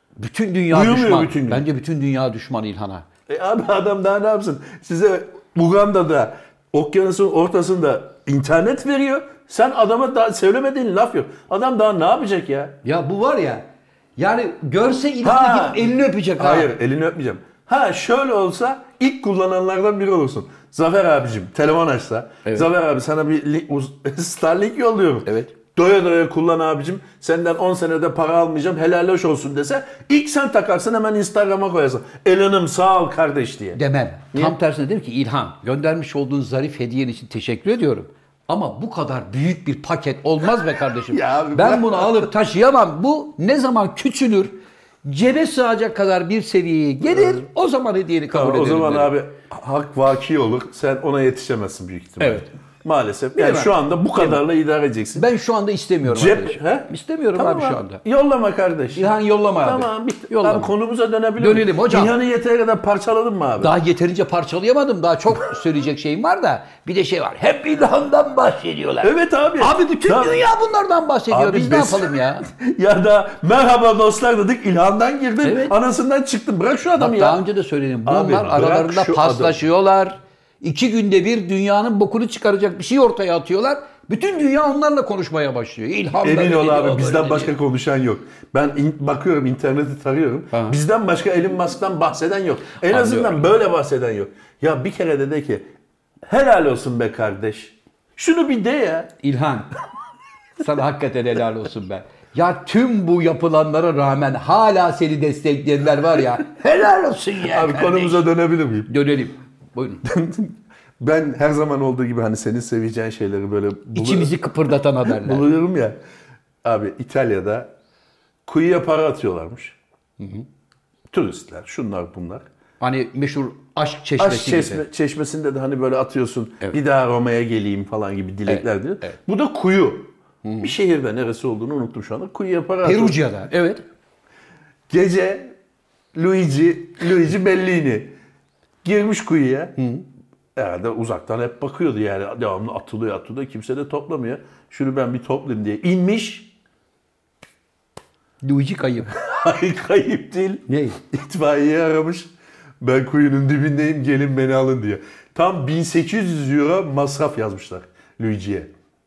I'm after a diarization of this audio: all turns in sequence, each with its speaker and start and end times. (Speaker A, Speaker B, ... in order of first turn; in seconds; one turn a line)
Speaker A: 0.2-3.0
Speaker B: 0.7-1.6
Speaker B: 3.3-12.8
Speaker A: 12.8-16.7
Speaker B: 15.2-33.8
Speaker A: 25.2-25.5
Speaker A: 33.8-44.5
Speaker B: 41.1-42.3
Speaker A: 45.0-49.1
Speaker B: 47.1-47.4
Speaker B: 48.3-55.3
Speaker A: 52.2-52.5
Speaker A: 53.4-54.4
Speaker A: 55.1-58.0
Speaker B: 56.0-63.7
Speaker A: 58.9-60.7
Speaker A: 61.4-62.1
Speaker A: 63.6-72.5
Speaker B: 69.0-70.4
Speaker B: 71.3-77.4
Speaker A: 75.4-75.8
Speaker A: 77.0-87.5
Speaker B: 78.0-79.6
Speaker B: 86.2-95.6
Speaker A: 90.5-90.8
Speaker A: 92.8-93.4
Speaker B: 96.2-99.1
Speaker A: 99.2-99.7
Speaker A: 100.6-108.3
Speaker B: 107.5-108.9
Speaker A: 108.9-110.0
Speaker B: 110.0-114.4
Speaker A: 113.9-115.5
Speaker B: 115.0-116.0
Speaker B: 116.6-117.7
Speaker B: 118.5-119.8
Speaker A: 120.2-120.5
Speaker B: 121.1-122.4
Speaker A: 122.8-124.8
Speaker B: 124.2-133.2
Speaker A: 128.5-129.2
Speaker A: 130.4-130.7
Speaker A: 132.8-133.8
Speaker B: 134.9-135.5
Speaker B: 136.1-138.1
Speaker B: 138.8-139.8
Speaker A: 139.8-140.0
Speaker B: 140.6-146.5
Speaker A: 148.4-149.2
Speaker B: 149.2-152.3
Speaker A: 150.7-151.0
Speaker B: 152.8-158.7